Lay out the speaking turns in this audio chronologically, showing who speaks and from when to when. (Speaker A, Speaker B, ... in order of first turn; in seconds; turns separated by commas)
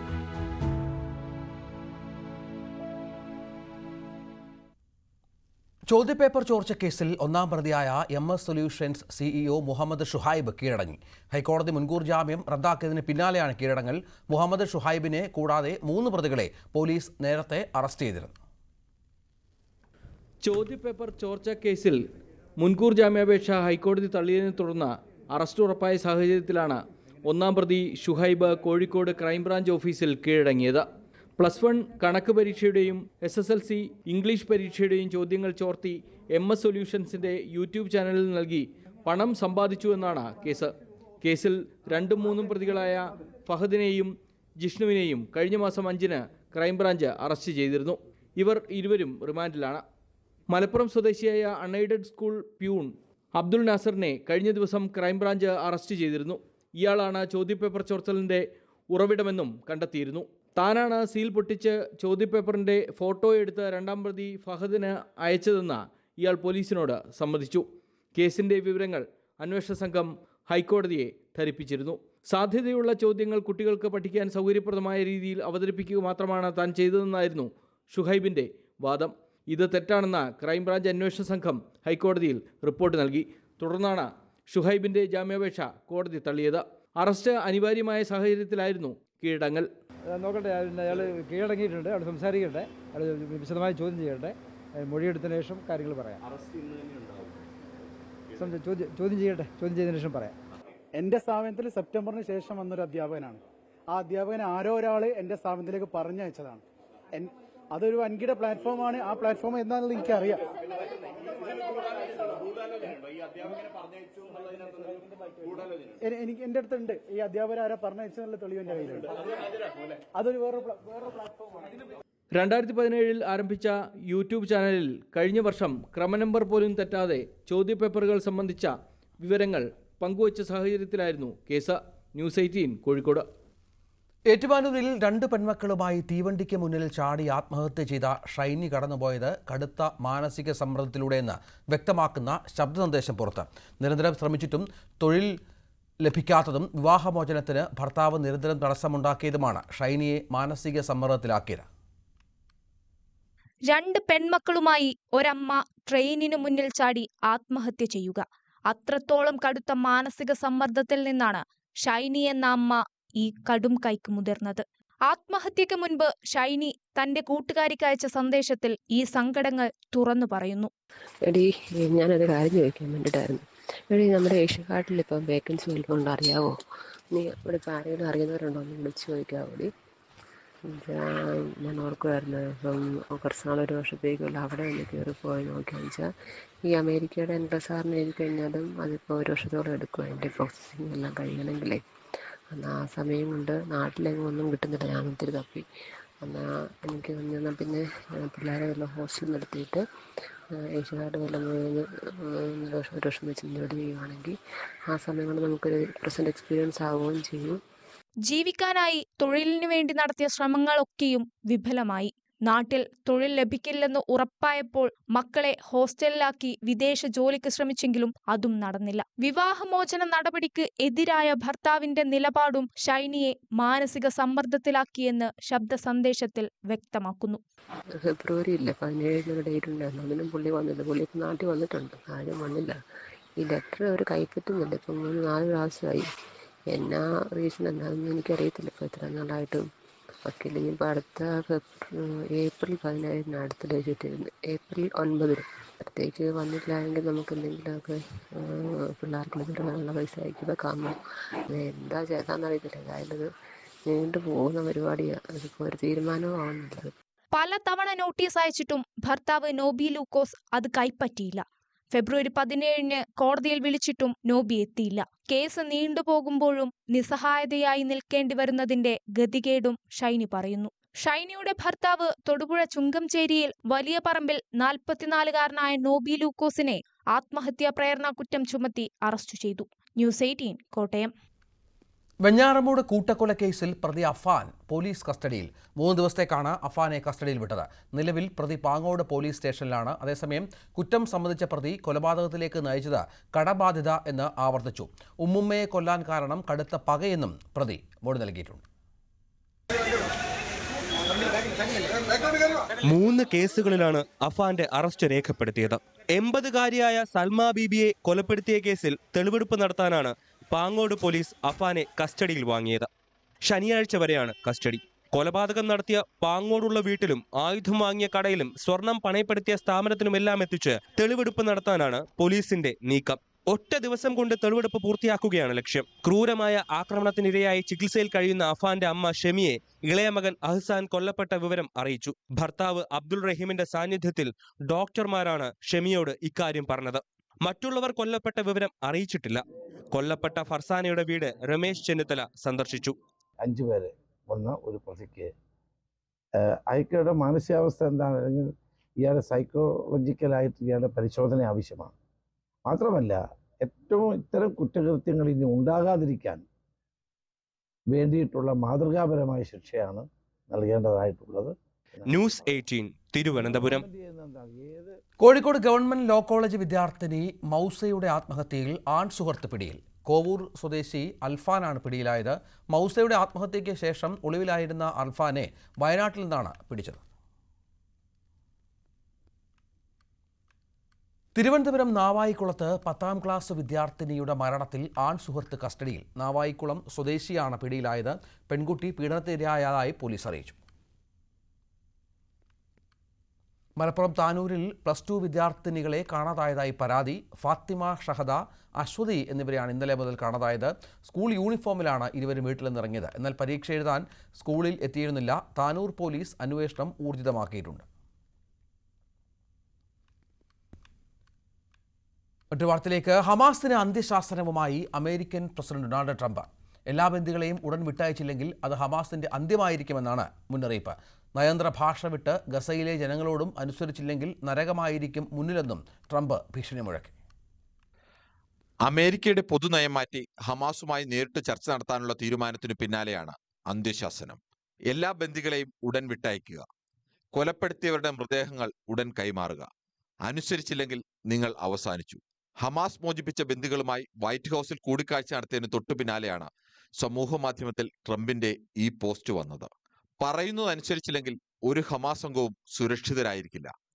Speaker A: 5.9-18.3, Speaker B: 20.4-22.0, Speaker B: 22.6-30.9, Speaker B: 31.4-49.8, Speaker B: 50.5-89.7, Speaker C: 90.1-96.2, Speaker C: 98.3-100.3, Speaker D: 101.0-110.5, Speaker D: 111.3-112.1, Speaker D: 114.2-119.3, Speaker D: 120.1-121.7, Speaker B: 122.3-133.2, Speaker A: 134.3-145.3, Speaker A: 146.0-151.7, Speaker E: 153.7-170.7, Speaker F: 171.2-176.6, Speaker F: 177.1-179.7, Speaker F: 180.7-186.1, Speaker F: 186.7-191.8, Speaker F: 192.5-195.6, Speaker F: 196.2-199.8, Speaker F: 200.5-204.4, Speaker F: 204.9-207.6, Speaker E: 208.3-227.4, Speaker F: 228.0-232.8, Speaker F: 233.4-236.1, Speaker F: 236.7-239.7, Speaker F: 240.2-250.9, Speaker F: 251.5-253.3, Speaker F: 253.8-256.9, Speaker E: 257.3-281.1, Speaker A: 282.2-298.6, Speaker G: 302.8-312.9, Speaker G: 313.4-342.9, Speaker H: 343.4-345.3, Speaker H: 346.7-348.5, Speaker H: 349.0-351.9, Speaker H: 352.7-356.4, Speaker H: 357.9-362.4, Speaker G: 362.1-363.8, Speaker H: 363.3-364.9, Speaker A: 365.2-377.0, Speaker A: 381.3-390.6, Speaker A: 393.8-407.8, Speaker A: 412.5-427.1, Speaker I: 428.8-434.4, Speaker I: 434.9-436.6, Speaker I: 437.3-439.7, Speaker I: 440.2-453.7